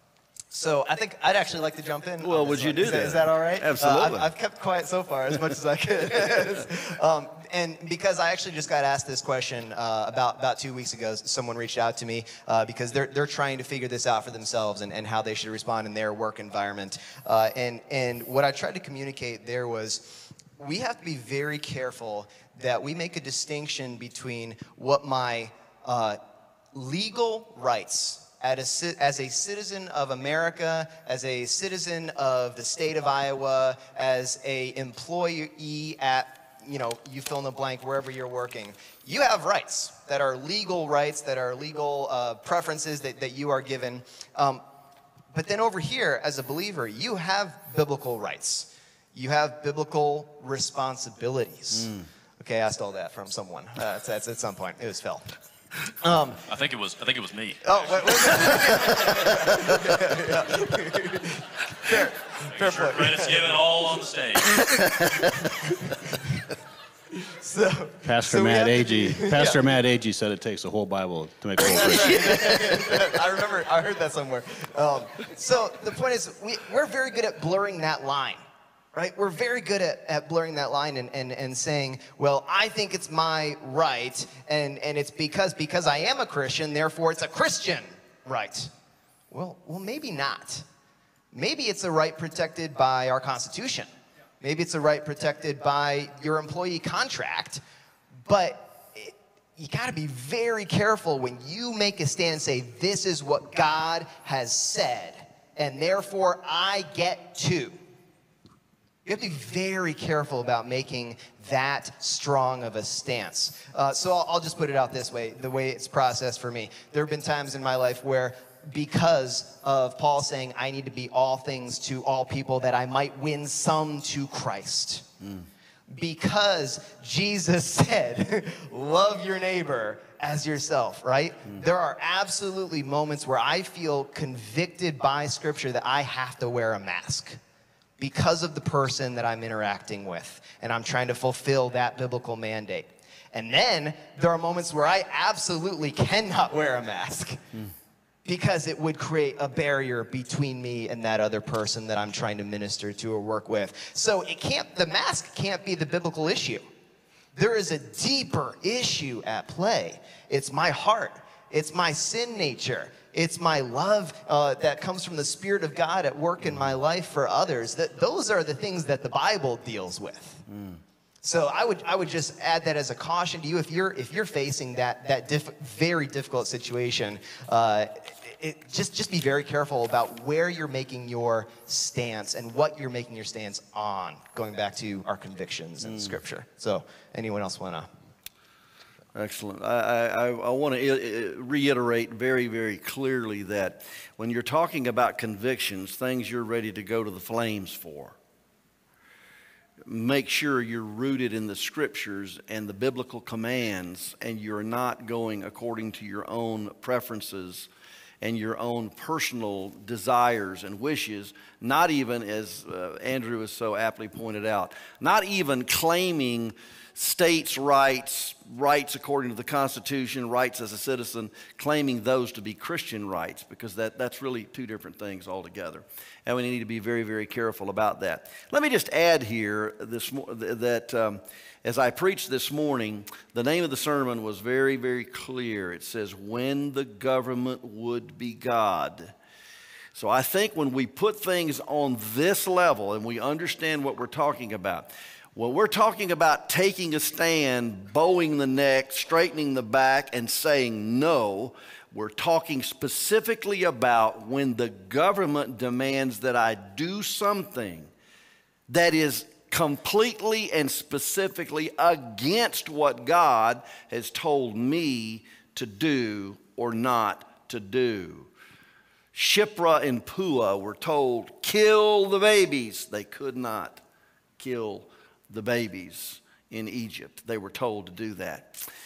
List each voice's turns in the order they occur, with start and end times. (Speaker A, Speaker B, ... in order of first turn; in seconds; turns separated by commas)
Speaker A: 0.5-26.2, Speaker B: 2.2-4.3, Speaker A: 26.7-44.6, Speaker A: 45.3-55.3, Speaker A: 55.9-56.4, Speaker C: 56.4-59.4, Speaker A: 57.6-63.5, Speaker C: 62.4-64.8, Speaker B: 64.6-65.2, Speaker A: 67.2-69.6, Speaker D: 68.0-72.3, Speaker A: 71.6-88.7, Speaker B: 71.9-72.9, Speaker A: 89.3-90.6, Speaker A: 91.3-93.9, Speaker A: 94.4-97.6, Speaker A: 98.2-107.8, Speaker A: 109.0-125.1, Speaker A: 125.9-137.4, Speaker A: 138.0-147.4, Speaker A: 148.2-156.6, Speaker A: 157.3-170.4, Speaker B: 170.5-170.8, Speaker A: 171.2-187.9, Speaker B: 185.8-186.1, Speaker B: 189.1-198.2, Speaker B: 199.8-207.7, Speaker B: 208.2-239.1, Speaker B: 239.9-257.9, Speaker B: 258.7-268.3, Speaker B: 269.1-273.8, Speaker B: 274.4-278.6